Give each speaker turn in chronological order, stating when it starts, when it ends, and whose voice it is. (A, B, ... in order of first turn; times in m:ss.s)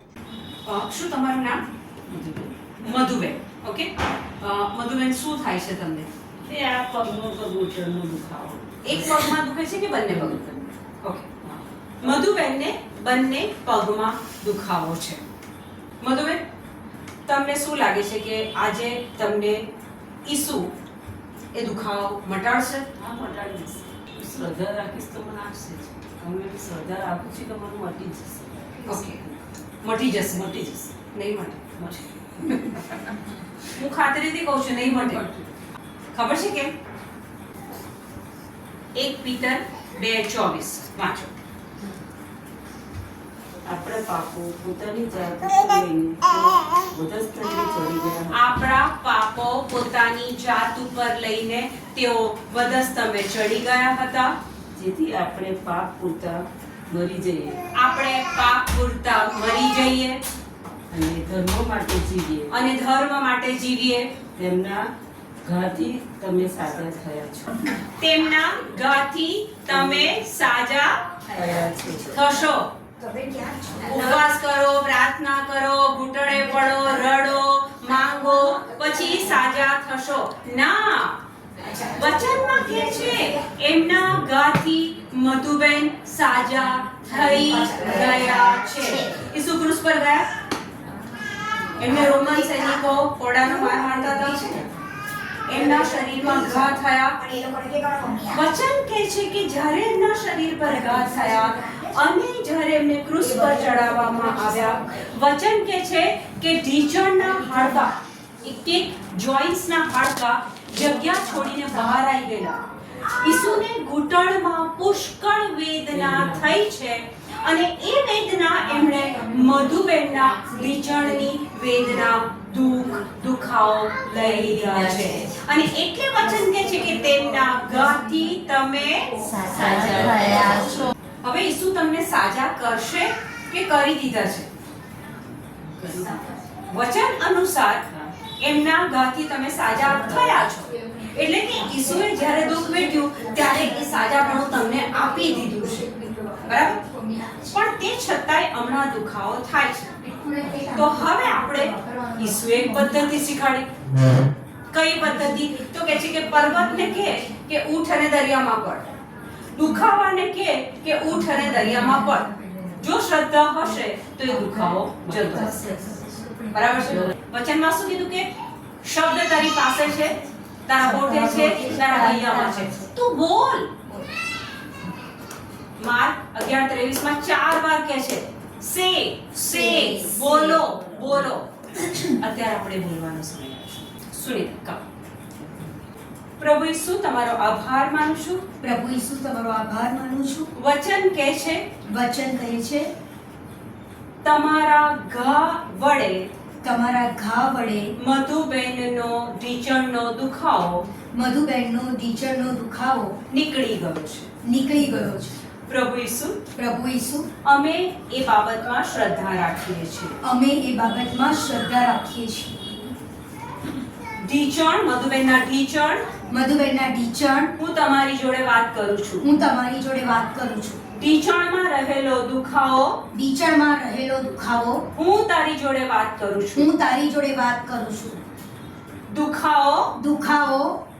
0:00.6-0:01.6 A
0:02.1-0:02.6 B
0:02.8-0:06.1 A
0:06.4-0:09.3 B
0:08.8-0:11.3 A
0:10.1-0:10.4 B
0:12.0-0:15.2 A
0:16.0-0:16.4 A
0:17.2-0:19.6 A
0:20.2-0:20.7 A
0:21.5-0:22.9 A
0:23.0-0:29.4 B
0:28.9-0:29.2 A
0:29.8-0:33.0 A
0:30.3-0:30.7 B
0:33.7-0:35.2 A
0:34.9-0:35.4 B
0:36.1-0:36.7 A
0:38.9-0:41.3 A
0:43.6-0:48.5 B
0:48.3-0:54.3 A
0:54.7-0:57.6 B
0:57.7-1:00.2 A
1:00.9-1:02.5 B
1:02.5-1:04.1 A
1:04.4-1:04.9 B
1:05.4-1:07.7 B
1:08.0-1:11.0 A
1:09.7-1:10.2 B
1:11.3-1:12.1 B
1:12.1-1:12.7 A
1:13.0-1:14.1 C
1:13.8-1:21.2 A
1:21.6-1:23.4 C
1:21.9-1:30.3 A
1:27.1-1:29.3 C
1:31.8-1:32.8 C
1:31.8-1:34.6 A
1:33.4-1:34.6 C
1:35.5-1:37.2 A
1:35.5-1:38.4 C
1:38.3-2:09.1 A
1:40.6-1:42.0 C
1:43.2-1:45.1 C
1:47.2-1:47.9 C
1:55.9-1:56.5 B
2:04.7-2:05.3 C
2:09.2-2:10.7 C
2:09.5-2:10.8 B
2:11.2-2:14.5 A
2:15.6-2:16.3 B
2:16.7-2:17.8 A
2:18.4-2:25.9 A
2:21.7-2:22.1 C
2:23.2-2:27.5 C
2:26.4-2:26.8 A
2:27.5-2:30.2 A
2:30.2-2:33.1 C
2:30.7-2:33.7 A
2:34.7-2:38.9 A
2:35.0-2:37.3 C
2:39.5-2:45.6 A
2:41.2-2:42.8 C
2:44.4-2:44.7 C
2:45.0-2:45.5 B
2:45.3-2:46.7 C
2:46.5-2:48.3 A
2:46.8-2:47.1 B
2:48.8-2:53.7 A
2:50.8-2:52.9 C
2:55.8-3:01.5 A
2:59.5-3:00.6 C
3:01.8-3:02.2 C
3:02.2-3:04.8 A
3:06.4-3:08.4 A
3:08.6-3:10.5 C
3:10.6-3:11.7 A
3:11.8-3:12.9 C
3:14.2-3:16.3 A
3:16.6-3:17.8 C
3:18.0-3:20.8 A
3:21.1-3:23.2 C
3:23.3-3:24.3 A
3:24.4-3:25.4 C
3:25.7-3:26.4 A
3:26.5-3:27.3 C
3:27.4-3:30.2 A
3:30.2-3:32.7 C
3:34.2-3:36.0 A
3:36.3-3:37.5 C
3:37.6-3:39.3 A
3:39.2-3:40.8 C
3:40.9-3:43.0 A
3:43.1-3:44.8 C
3:44.9-3:46.7 A
3:46.6-3:48.2 C
3:49.1-3:49.9 A
3:50.0-3:50.8 C